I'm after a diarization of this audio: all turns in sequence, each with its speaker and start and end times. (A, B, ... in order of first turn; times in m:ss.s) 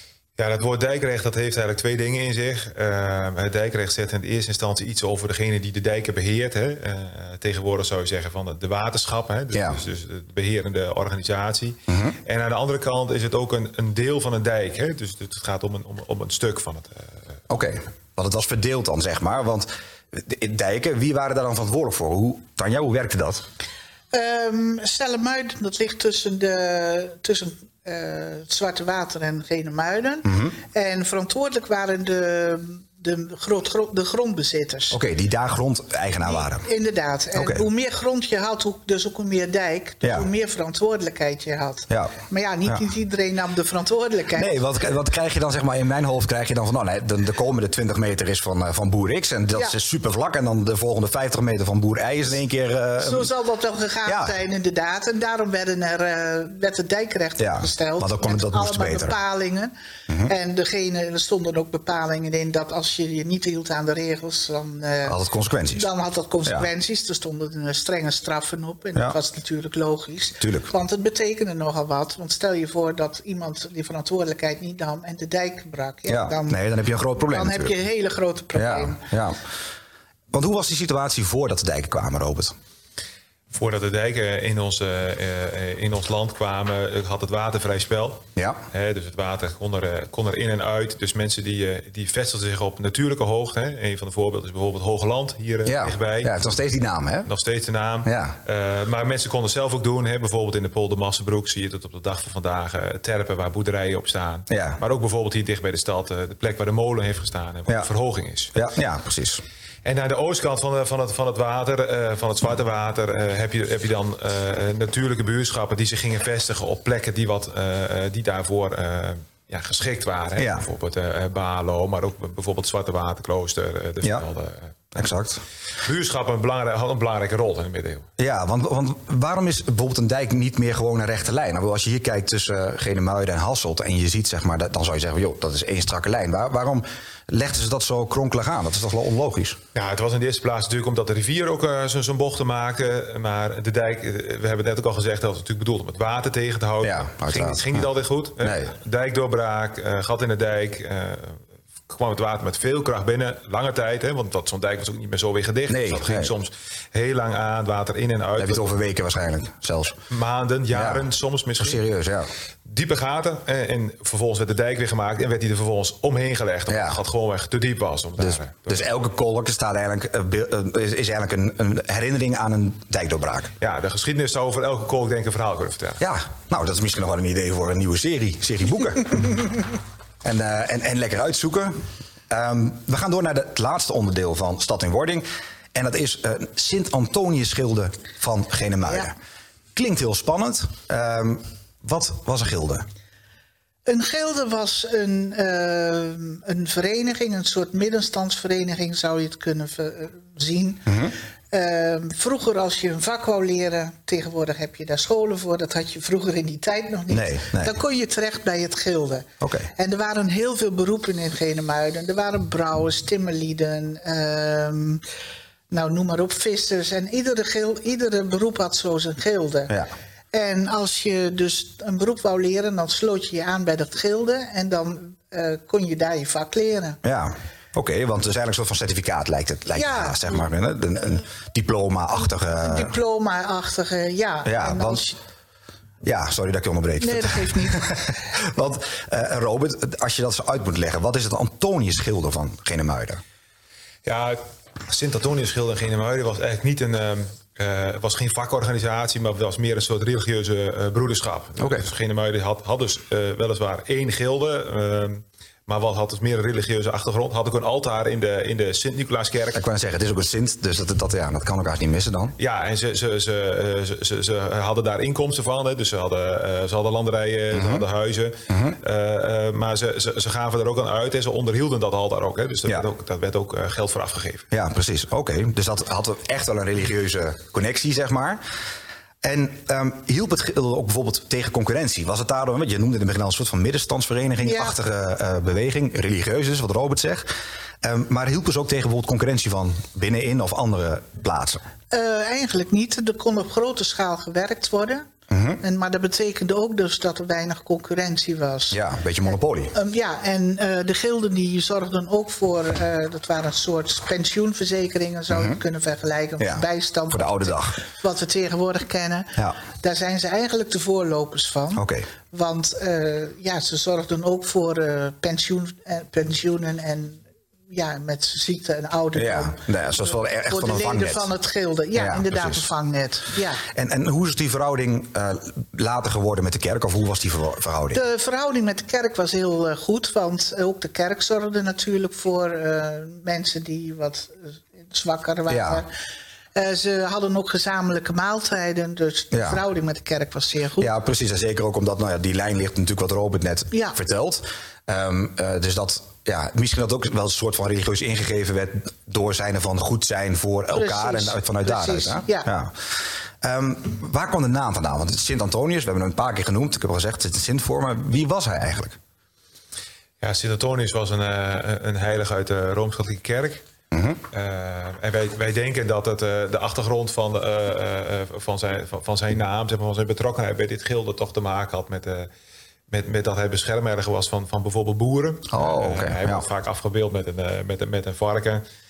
0:00.4-0:17.1 A
0:09.5-0:09.8 B
0:11.9-0:12.2 B
0:17.5-0:23.4 B
0:24.1-0:35.0 C
0:30.2-0:30.6 B
0:34.9-0:36.7 B
0:36.3-0:44.6 C
0:37.4-0:37.7 B
0:40.0-0:40.3 B
0:41.9-0:42.8 B
0:44.3-0:53.3 B
0:53.0-0:59.7 C
0:54.1-0:54.4 B
0:57.4-0:59.2 B
1:00.1-1:00.3 B
1:00.2-1:05.2 C
1:05.0-1:05.9 B
1:05.7-1:16.6 C
1:10.4-1:10.7 B
1:16.1-1:17.8 B
1:17.2-1:19.0 C
1:18.5-1:19.4 B
1:20.3-1:22.5 B
1:23.5-1:36.3 A
1:28.4-1:28.6 B
1:35.6-1:37.3 B
1:37.3-1:48.5 A
1:38.0-1:38.4 B
1:44.5-1:44.8 B
1:48.5-1:49.4 B
1:49.8-2:05.1 A
2:00.4-2:00.7 B
2:05.0-2:05.4 B
2:05.8-2:08.0 A
2:08.2-2:19.6 B
2:19.8-2:38.7 A
2:26.8-2:27.9 B
2:28.4-2:28.8 B
2:35.7-2:36.3 B
2:38.4-2:40.0 B
2:40.1-2:41.8 A
2:40.7-2:42.3 B
2:42.7-2:48.8 A
2:46.7-2:47.0 B
2:48.2-2:53.5 B
2:53.6-2:56.0 A
2:56.0-2:59.6 B
3:00.2-3:01.8 B
3:02.3-3:09.1 B
3:09.8-3:12.8 B
3:13.9-3:20.9 C
3:20.9-3:21.2 B
3:21.5-3:35.0 C
3:27.1-3:27.8 B
3:29.4-3:29.7 B
3:35.7-3:39.8 C
3:40.3-3:47.0 C
3:47.0-3:52.9 B
3:49.7-3:50.4 C
3:52.6-3:55.2 C
3:54.4-3:55.0 B
3:56.0-4:03.2 B
3:57.0-3:58.0 C
4:04.0-4:19.6 A
4:11.6-4:11.9 B
4:19.6-4:22.4 B
4:22.4-4:34.5 A
4:27.5-4:27.8 B
4:28.5-4:28.8 B
4:34.5-4:38.4 B
4:39.2-4:47.3 B
4:44.4-4:44.8 C
4:47.8-4:51.6 B
4:51.9-4:55.0 C
4:55.3-4:55.6 B
4:55.6-5:23.6 C
4:58.7-4:59.7 B
5:05.3-5:05.6 B
5:06.4-5:07.8 B
5:11.8-5:12.1 B
5:19.1-5:21.3 B
5:22.0-5:22.7 B
5:23.7-5:28.0 B
5:27.9-5:35.9 C
5:35.5-5:35.8 B
5:36.6-5:40.9 C
5:39.3-5:39.6 B
5:40.8-5:52.9 B
5:50.7-5:52.5 C
5:53.4-5:59.0 B
6:00.2-6:03.6 A
6:03.9-6:04.2 B
6:04.3-6:12.3 A
6:12.9-6:18.6 A
6:15.5-6:16.4 B